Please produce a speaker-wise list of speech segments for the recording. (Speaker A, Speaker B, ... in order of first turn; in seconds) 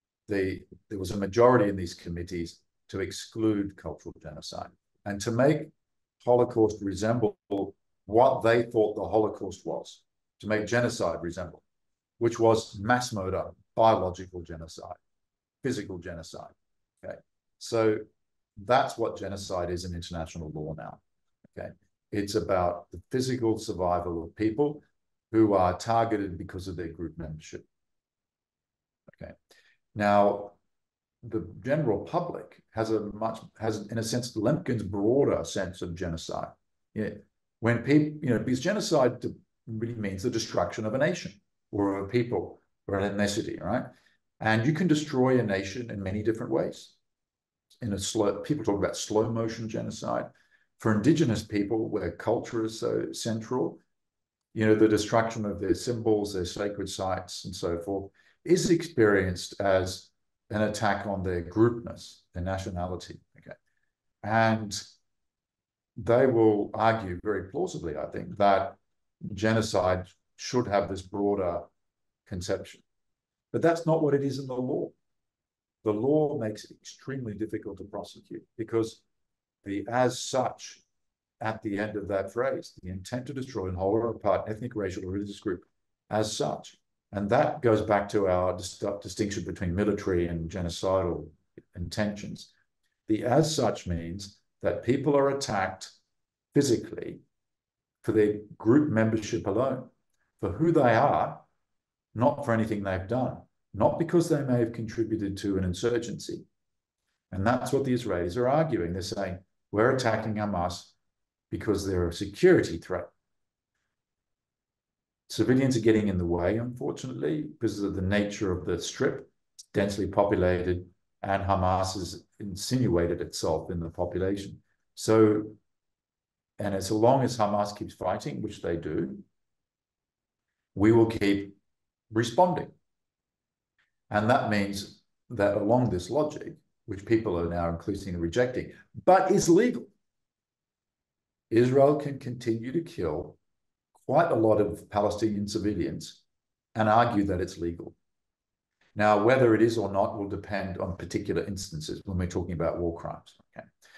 Speaker A: 0.3-11.6, 12.2-15.0, 15.6-18.0, 18.6-21.0, 21.5-27.6, 29.9-30.6, 31.2-43.9, 44.4-46.9, 47.8-53.8, 54.5-63.6, 64.2-64.8, 66.0-71.7, 72.2-72.8, 73.5-74.9, 75.8-79.0, 79.6-80.8, 81.4-92.5, 93.1-95.9, 96.5-97.2, 98.0-101.4, 102.1-106.4, 107.3-110.9, 111.5-113.1, 115.3-125.6, 126.6-129.2, 130.7-131.6, 132.1-132.7, 134.1-139.9, 141.5-143.4, 144.0-146.2, 146.7-147.9, 148.9-153.7